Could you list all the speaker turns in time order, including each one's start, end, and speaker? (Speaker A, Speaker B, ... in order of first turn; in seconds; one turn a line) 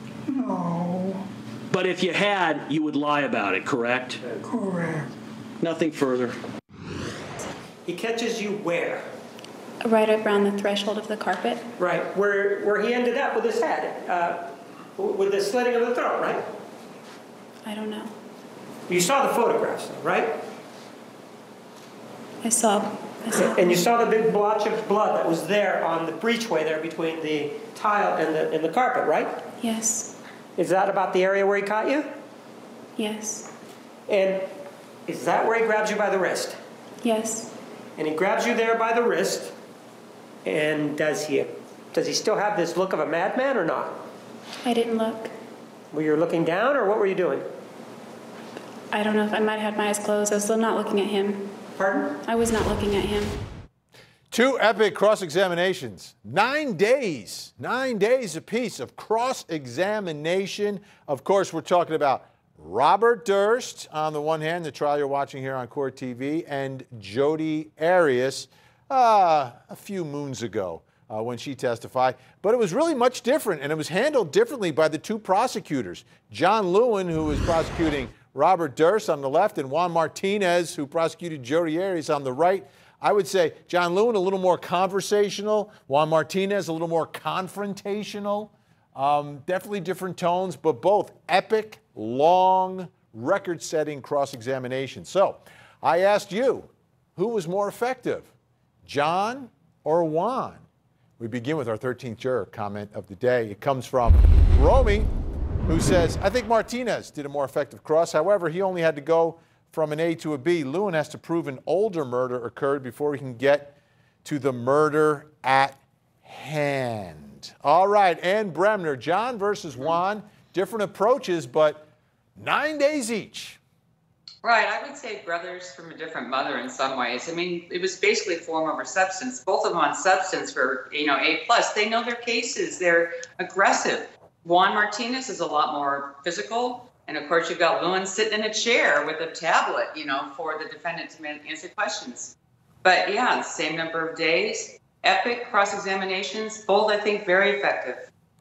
Speaker A: 1.7-4.2
Speaker A: 5.6-6.4
Speaker B: 7.8-9.1
Speaker C: 9.8-11.7
Speaker B: 11.8-16.5
Speaker C: 17.6-18.1
Speaker B: 18.9-20.4
Speaker C: 22.4-23.9
Speaker B: 23.3-29.5
Speaker C: 29.6-30.1
Speaker B: 30.6-32.1
Speaker C: 33.0-33.5
Speaker B: 34.1-34.5
Speaker B: 35.1-36.6
Speaker C: 37.0-37.5
Speaker B: 38.0-39.5
Speaker B: 40.4-44.0
Speaker C: 44.6-45.3
Speaker B: 45.9-47.5
Speaker C: 48.9-51.5
Speaker B: 51.8-52.1
Speaker C: 52.2-53.4
Speaker D: 54.3-98.3
Speaker D: 98.8-100.6
Speaker D: 101.2-105.1
Speaker D: 105.7-123.6
Speaker E: 124.4-142.3
Speaker E: 142.8-148.1